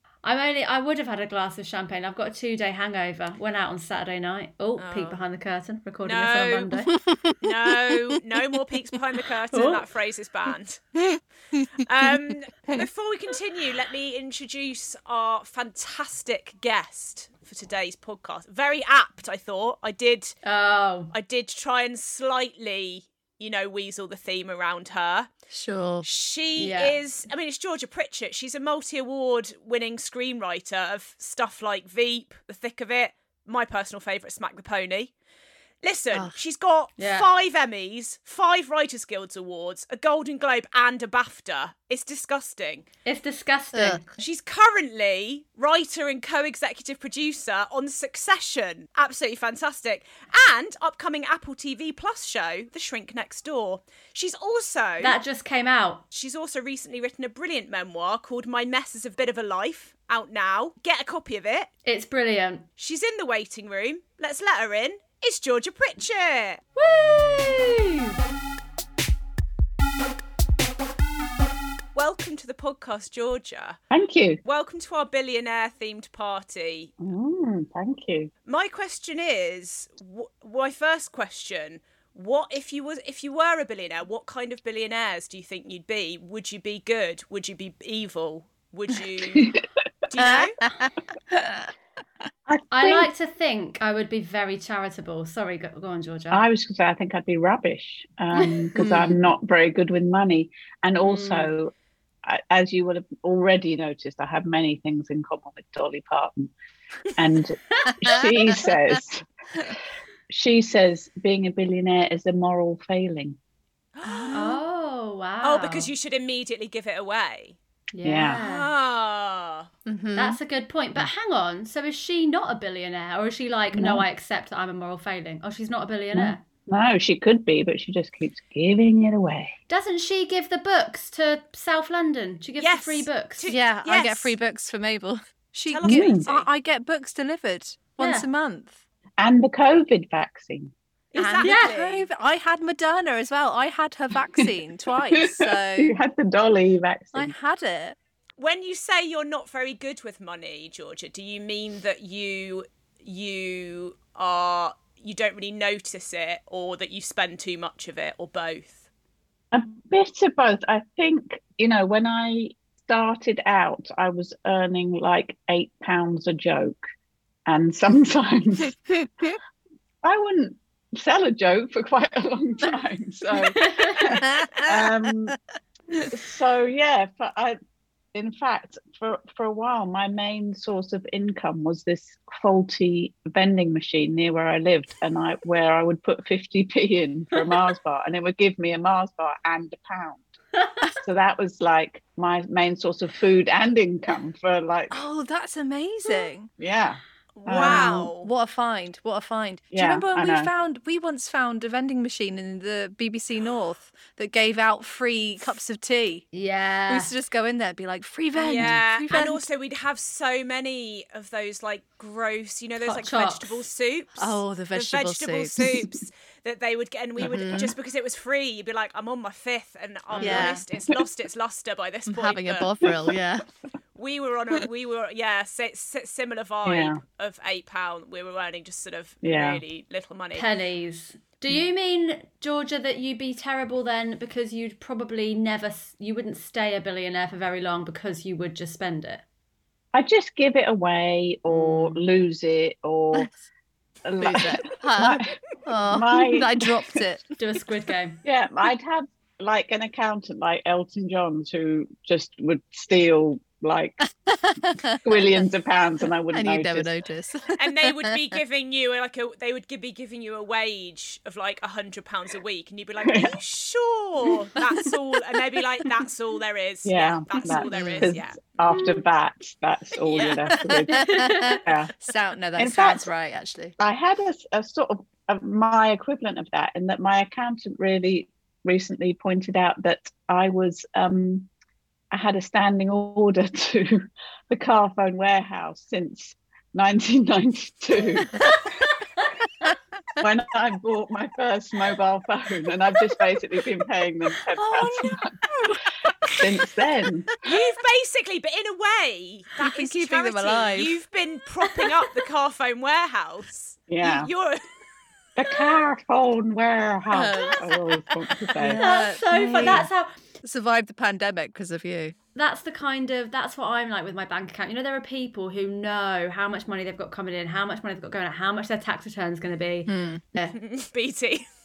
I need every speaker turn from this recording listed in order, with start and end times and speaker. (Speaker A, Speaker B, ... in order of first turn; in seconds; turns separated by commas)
Speaker A: 0.2-7.0, Speaker B: 4.8-5.2, Speaker B: 6.0-6.7, Speaker C: 6.9-7.4, Speaker B: 7.4-10.9, Speaker A: 9.5-9.9, Speaker C: 11.1-11.6, Speaker B: 11.8-20.3, Speaker A: 20.4-21.1, Speaker B: 21.1-25.3, Speaker C: 25.5-26.1, Speaker B: 26.0-35.1, Speaker A: 26.6-27.0, Speaker B: 35.8-42.8, Speaker A: 37.0-37.3, Speaker A: 43.0-44.0, Speaker C: 43.7-44.0, Speaker B: 44.2-55.2, Speaker A: 55.0-56.0, Speaker B: 56.1-61.7, Speaker A: 61.8-62.7, Speaker B: 62.8-66.6, Speaker A: 66.8-68.2, Speaker B: 72.0-73.8, Speaker D: 73.9-74.4, Speaker B: 74.4-76.9, Speaker D: 77.0-78.3, Speaker B: 78.5-89.6, Speaker B: 90.1-90.6, Speaker C: 90.2-91.7, Speaker D: 92.5-93.1, Speaker A: 92.7-96.4, Speaker D: 96.3-101.7, Speaker A: 98.3-98.7, Speaker C: 98.8-99.2, Speaker A: 101.0-101.5, Speaker D: 102.2-106.5, Speaker D: 107.1-109.7, Speaker C: 107.9-109.0, Speaker D: 110.3-113.4, Speaker B: 113.9-114.6, Speaker C: 114.0-114.6, Speaker A: 114.3-115.9, Speaker B: 115.4-117.6, Speaker A: 117.9-118.7, Speaker D: 118.0-118.4, Speaker B: 118.3-119.7, Speaker C: 119.9-120.4, Speaker A: 120.1-126.4, Speaker D: 123.7-124.0, Speaker D: 126.1-129.5, Speaker A: 129.7-133.6, Speaker B: 132.6-134.3, Speaker C: 133.5-138.8, Speaker B: 135.7-136.5, Speaker D: 135.8-136.2, Speaker A: 138.0-138.2, Speaker D: 139.2-140.7, Speaker B: 141.1-142.1, Speaker C: 141.2-145.9, Speaker A: 141.4-141.7, Speaker D: 145.1-147.3, Speaker C: 147.1-147.9, Speaker B: 148.4-158.8, Speaker D: 159.5-166.8, Speaker D: 167.5-168.8, Speaker D: 170.0-175.4, Speaker C: 174.2-174.9, Speaker D: 176.0-177.6, Speaker D: 178.1-190.2, Speaker A: 187.4-187.6, Speaker D: 190.9-195.0, Speaker C: 194.9-196.5, Speaker D: 196.6-198.1, Speaker B: 197.3-198.3, Speaker C: 197.5-206.3, Speaker D: 199.7-200.5, Speaker A: 206.3-207.1, Speaker C: 206.9-209.4, Speaker B: 208.4-222.7, Speaker A: 212.8-213.7, Speaker C: 214.2-215.7, Speaker C: 217.2-217.7, Speaker A: 220.1-220.6, Speaker C: 220.2-220.6, Speaker C: 222.1-223.4, Speaker B: 223.9-230.5, Speaker D: 226.6-227.0, Speaker D: 229.2-229.6, Speaker A: 230.3-239.2, Speaker D: 239.9-243.3, Speaker A: 241.5-242.0, Speaker D: 244.1-246.8, Speaker C: 244.2-247.3, Speaker A: 247.4-248.2, Speaker D: 248.2-254.1, Speaker C: 254.3-255.3, Speaker D: 255.0-256.9, Speaker C: 256.3-258.2, Speaker B: 257.6-268.6, Speaker D: 263.1-263.3, Speaker D: 266.8-271.9, Speaker C: 267.7-268.1, Speaker A: 268.7-269.0, Speaker B: 270.0-270.8, Speaker A: 270.9-271.6, Speaker C: 270.9-273.8, Speaker D: 272.6-273.1, Speaker D: 273.8-281.5, Speaker D: 282.1-289.0, Speaker D: 290.2-295.8, Speaker C: 294.6-296.6, Speaker D: 296.4-297.3, Speaker B: 297.4-304.6, Speaker C: 299.6-301.0, Speaker D: 303.9-304.3, Speaker D: 305.4-308.8, Speaker C: 307.1-307.6, Speaker C: 308.6-309.9, Speaker A: 308.6-310.1, Speaker C: 310.4-312.1, Speaker A: 312.4-320.5, Speaker C: 319.9-320.3, Speaker B: 320.5-321.5